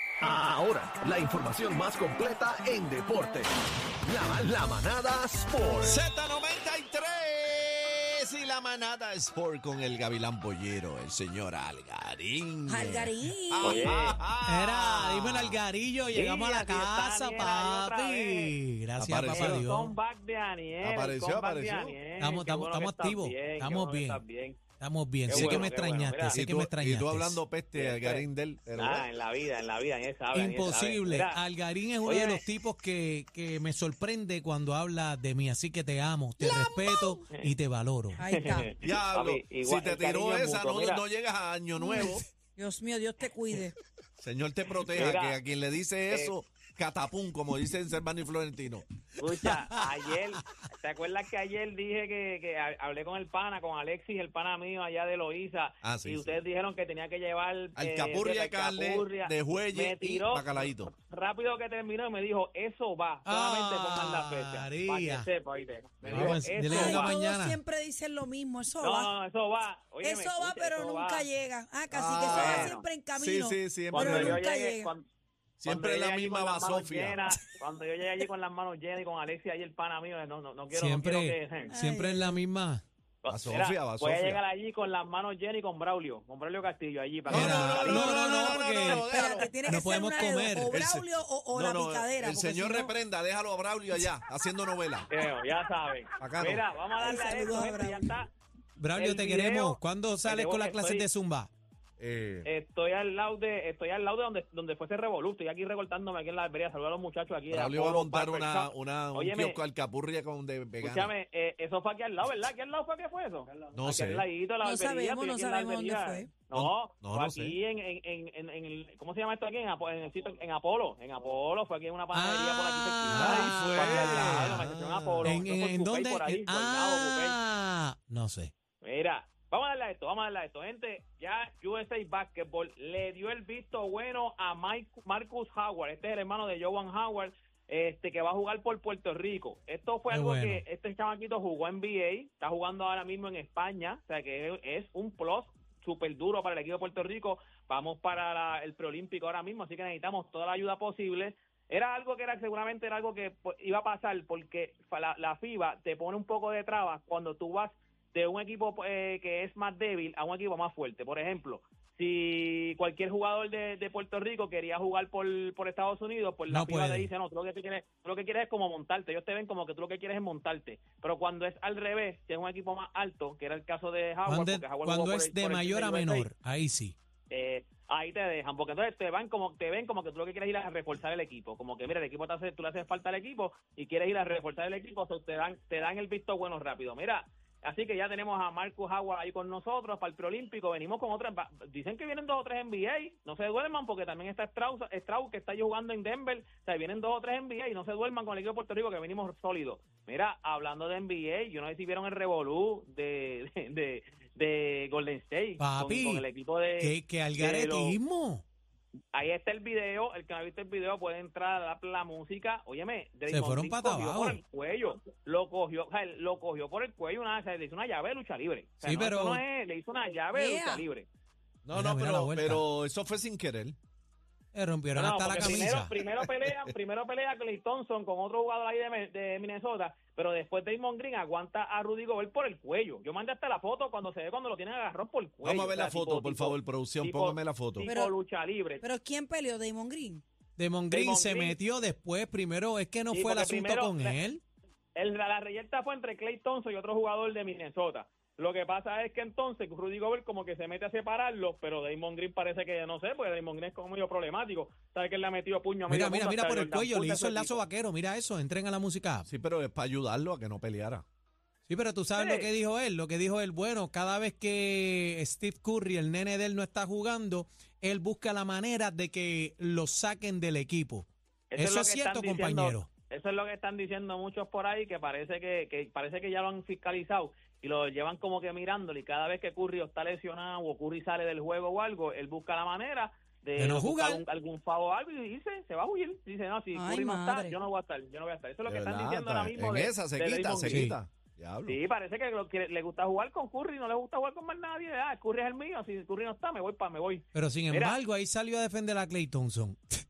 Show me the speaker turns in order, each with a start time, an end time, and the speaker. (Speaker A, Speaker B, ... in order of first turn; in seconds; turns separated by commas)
Speaker A: 0.2-3.5, Speaker A: 4.0-5.9, Speaker B: 5.8-15.6, Speaker C: 12.7-13.9, Speaker D: 13.6-14.2, Speaker E: 14.4-19.9, Speaker D: 16.1-18.5, Speaker B: 19.0-19.7, Speaker D: 19.2-24.6, Speaker B: 20.8-22.0, Speaker E: 22.2-24.2, Speaker E: 24.8-27.4, Speaker D: 25.3-26.4, Speaker B: 25.3-25.7, Speaker B: 26.3-29.1, Speaker D: 27.7-28.2, Speaker D: 28.8-31.4, Speaker E: 30.3-38.2, Speaker D: 32.0-32.4, Speaker C: 36.4-37.2, Speaker C: 38.2-38.7, Speaker D: 38.2-41.0, Speaker B: 38.8-42.2, Speaker C: 41.8-43.7, Speaker B: 44.2-48.8, Speaker D: 44.9-45.4, Speaker D: 49.2-67.2, Speaker B: 55.8-56.4, Speaker B: 57.8-60.9, Speaker E: 63.2-65.3, Speaker B: 66.0-67.0, Speaker E: 66.1-67.6, Speaker C: 66.6-69.1, Speaker D: 68.8-71.3, Speaker C: 70.0-74.9, Speaker B: 71.9-74.4, Speaker D: 72.3-72.8, Speaker D: 73.9-75.0, Speaker B: 75.6-77.2, Speaker D: 75.7-81.7, Speaker E: 80.7-82.8, Speaker C: 81.7-82.4, Speaker D: 83.2-89.6, Speaker B: 83.3-84.4, Speaker B: 87.2-95.1, Speaker E: 87.3-89.0, Speaker C: 87.9-92.9, Speaker E: 89.6-90.7, Speaker D: 95.1-98.3, Speaker B: 96.2-96.6, Speaker C: 97.0-98.1, Speaker E: 98.8-101.5, Speaker D: 98.9-101.1, Speaker B: 102.0-102.5, Speaker D: 102.4-109.6, Speaker B: 107.5-111.1, Speaker D: 110.8-127.3, Speaker B: 113.7-114.2, Speaker C: 114.6-116.3, Speaker B: 116.5-117.5, Speaker E: 122.1-124.6, Speaker B: 123.1-125.4, Speaker E: 125.2-128.5, Speaker D: 128.8-176.3, Speaker E: 140.1-140.6, Speaker E: 166.5-167.1, Speaker E: 174.2-176.9, Speaker D: 177.3-208.0, Speaker E: 205.6-206.2, Speaker E: 206.8-208.4, Speaker D: 209.1-221.1, Speaker E: 213.3-214.4, Speaker E: 218.8-219.4, Speaker C: 220.3-220.8, Speaker B: 221.6-223.8, Speaker E: 221.7-222.6, Speaker E: 224.5-226.0, Speaker D: 224.9-238.8, Speaker B: 226.0-226.7, Speaker B: 235.4-237.9, Speaker C: 237.8-238.1, Speaker C: 238.8-240.2, Speaker E: 240.6-244.4, Speaker D: 240.9-241.5, Speaker D: 243.1-244.2, Speaker D: 244.9-257.6, Speaker E: 255.9-259.2, Speaker B: 259.3-261.0, Speaker E: 261.7-272.9, Speaker D: 262.1-262.5, Speaker D: 271.5-290.9, Speaker E: 283.6-284.2, Speaker C: 286.7-287.6, Speaker B: 288.6-291.8, Speaker E: 290.6-290.9, Speaker D: 291.7-298.0, Speaker E: 297.3-299.8